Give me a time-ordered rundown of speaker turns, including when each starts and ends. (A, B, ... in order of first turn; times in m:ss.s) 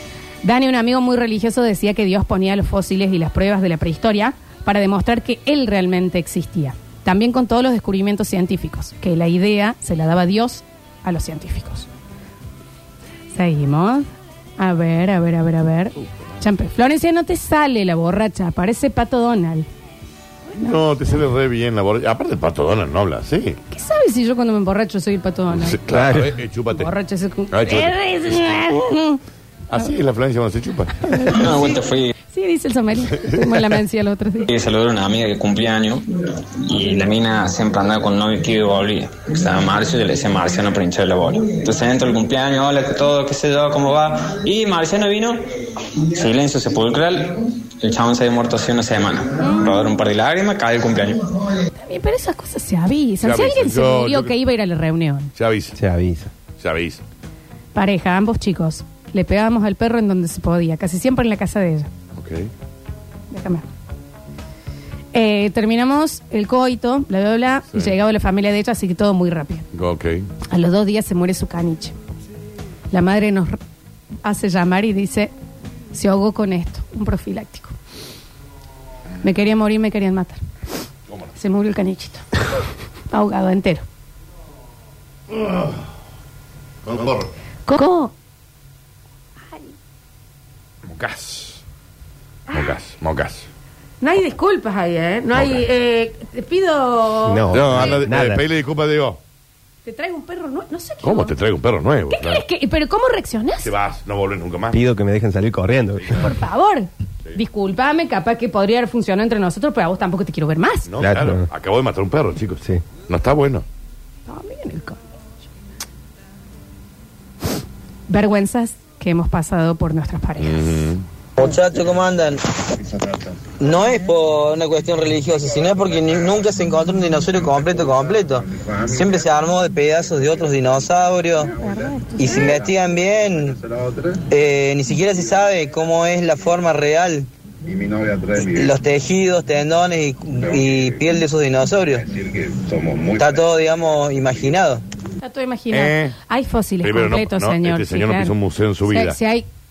0:00.4-0:11.9 A
0:13.3-0:19.7 A
0:20.6-0:23.6 B
0:23.7-0:25.8 A
0:25.6-0:26.9 B
0:25.9-0:26.3 C
0:26.7-0:29.2 A
0:27.5-0:28.0 B
0:29.7-0:31.2 B
0:31.0-0:31.8 A
0:31.3-0:32.1 D
0:32.3-0:34.5 A
0:34.4-0:36.1 D
0:36.6-0:45.4 D
0:46.0-0:51.4 D
0:49.4-0:49.7 A
0:51.8-0:55.3 A
0:53.2-0:54.3 B
0:55.4-0:55.7 B
0:55.7-0:56.3 C
0:56.6-0:57.0 B
0:57.7-1:01.9 A
1:02.1-1:02.5 B
1:03.3-1:03.6 A
1:05.1-1:09.6 A
1:09.7-1:10.3 B
1:10.5-1:11.9 A
1:12.9-1:13.6 A
1:14.2-1:15.3 A
1:15.9-1:17.7 A
1:19.2-1:20.4 A
1:21.4-1:22.2 A
1:23.1-1:23.8 A
1:25.3-1:25.8 B
1:26.8-1:27.3 B
1:27.6-1:28.1 A
1:30.8-1:31.6 B
1:32.5-1:32.7 A
1:32.5-1:33.5 B
1:34.0-1:38.0 A
1:35.3-1:35.6 B
1:37.2-1:38.4 C
1:37.5-1:39.2 B
1:39.8-1:41.3 A
1:41.0-1:42.4 B
1:42.1-1:43.7 A
1:43.6-1:44.8 B
1:44.7-1:46.2 C
1:46.1-1:50.8 A
1:50.9-1:53.6 B
1:51.0-1:51.5 C
1:54.3-1:55.0 A
1:58.1-2:00.8 A
2:00.4-2:01.0 B
2:01.4-2:02.4 E
2:03.6-2:11.5 E
2:07.6-2:09.2 F
2:11.4-2:12.8 F
2:11.6-2:12.5 A
2:12.2-2:13.6 E
2:13.3-2:14.2 F
2:14.3-2:17.3 E
2:17.6-2:18.7 F
2:18.4-2:22.0 E
2:20.4-2:21.0 F
2:21.9-2:23.4 F
2:23.2-2:24.8 E
2:25.2-2:28.3 A
2:25.7-2:26.1 B
2:26.8-2:29.2 B
2:28.9-2:29.5 A